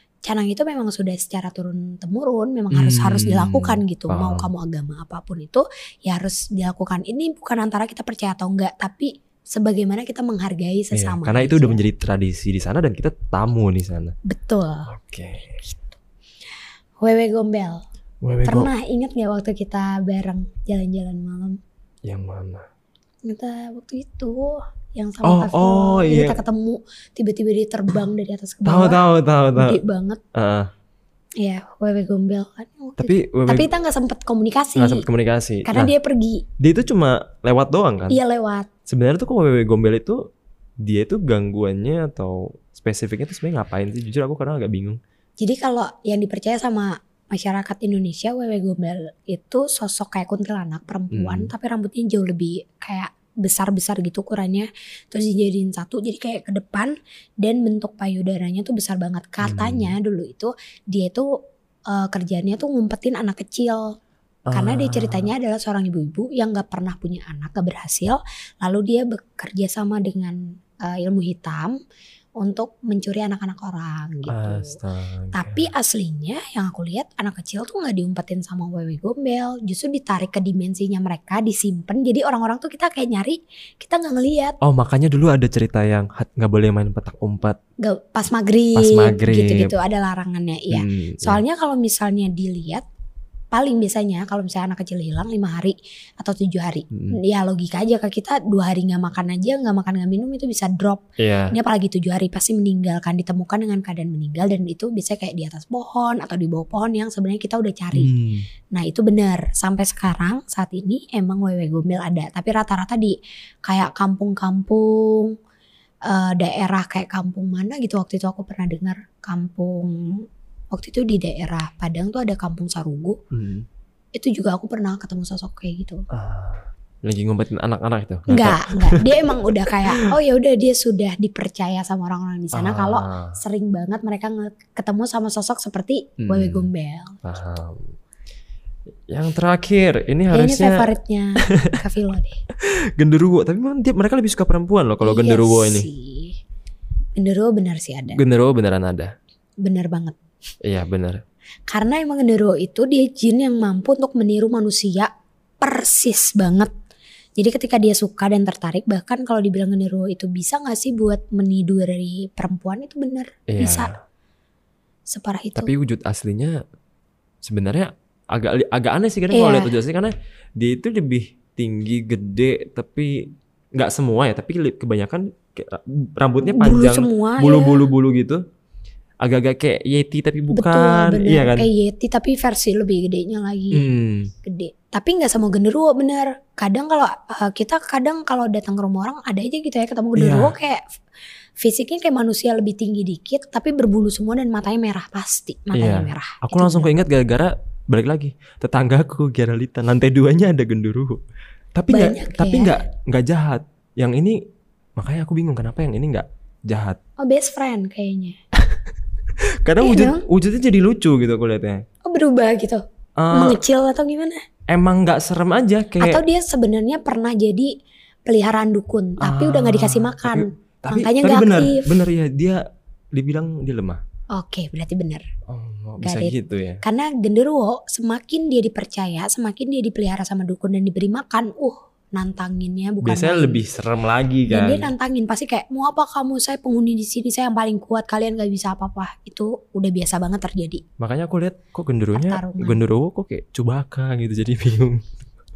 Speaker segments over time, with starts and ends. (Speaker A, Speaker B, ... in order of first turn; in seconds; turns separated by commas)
Speaker A: 0.2-11.8, Speaker B: 2.7-4.5, Speaker B: 10.9-14.1, Speaker A: 14.2-14.9, Speaker B: 14.9-15.6, Speaker A: 17.0-17.8, Speaker B: 18.2-18.7, Speaker A: 18.4-21.6, Speaker B: 22.1-22.6, Speaker A: 23.2-30.2, Speaker B: 25.2-26.4, Speaker B: 28.6-29.8, Speaker B: 30.3-30.7, Speaker A: 31.4-35.0, Speaker B: 33.0-33.7, Speaker B: 34.8-35.9, Speaker A: 35.6-36.4, Speaker B: 36.6-38.2, Speaker A: 38.1-38.7, Speaker B: 38.9-40.2, Speaker B: 40.8-45.0, Speaker A: 45.4-61.3, Speaker B: 51.1-51.5, Speaker B: 59.4-60.0, Speaker A: 61.9-63.9, Speaker B: 64.5-65.3, Speaker A: 64.5-71.7, Speaker A: 72.4-74.8, Speaker B: 74.3-75.7, Speaker A: 75.3-84.5, Speaker B: 84.6-87.6, Speaker A: 87.8-92.8, Speaker B: 88.8-89.7, Speaker B: 90.7-91.4, Speaker A: 93.5-108.1, Speaker B: 96.9-97.2, Speaker B: 101.2-101.5, Speaker B: 107.9-108.5, Speaker A: 108.7-115.3, Speaker A: 116.1-123.2, Speaker B: 123.3-123.7, Speaker A: 124.1-126.0, Speaker B: 126.1-129.3, Speaker A: 128.3-137.2, Speaker B: 132.5-133.4, Speaker B: 136.2-136.7, Speaker B: 137.2-137.9, Speaker B: 139.1-140.9, Speaker A: 140.3-142.4, Speaker B: 142.6-145.9, Speaker A: 145.0-146.4, Speaker A: 147.2-148.2, Speaker B: 148.1-149.1, Speaker A: 149.6-150.2, Speaker B: 150.6-151.2, Speaker A: 151.7-155.1, Speaker A: 155.6-156.7, Speaker A: 157.4-163.9, Speaker B: 163.5-163.9, Speaker A: 165.1-165.7, Speaker B: 165.6-166.6, Speaker B: 167.4-178.4, Speaker A: 169.3-169.7, Speaker A: 176.4-177.9, Speaker B: 179.2-181.7, Speaker A: 180.5-183.9, Speaker B: 183.7-184.3, Speaker A: 184.4-190.8, Speaker B: 190.2-190.5, Speaker A: 191.6-197.0, Speaker B: 195.7-201.2, Speaker B: 201.7-204.4, Speaker A: 201.9-202.7, Speaker B: 205.0-207.0, Speaker A: 207.2-208.4, Speaker B: 209.6-211.8, Speaker A: 209.8-210.2, Speaker A: 212.1-214.4, Speaker B: 213.2-213.6, Speaker B: 214.7-216.2, Speaker A: 216.0-217.7, Speaker A: 218.3-221.9, Speaker B: 219.2-222.6, Speaker B: 223.1-224.0, Speaker A: 224.3-225.2, Speaker B: 225.5-226.8, Speaker A: 226.0-233.6, Speaker B: 233.0-234.9, Speaker A: 234.5-240.8, Speaker B: 241.0-245.1, Speaker A: 242.1-242.8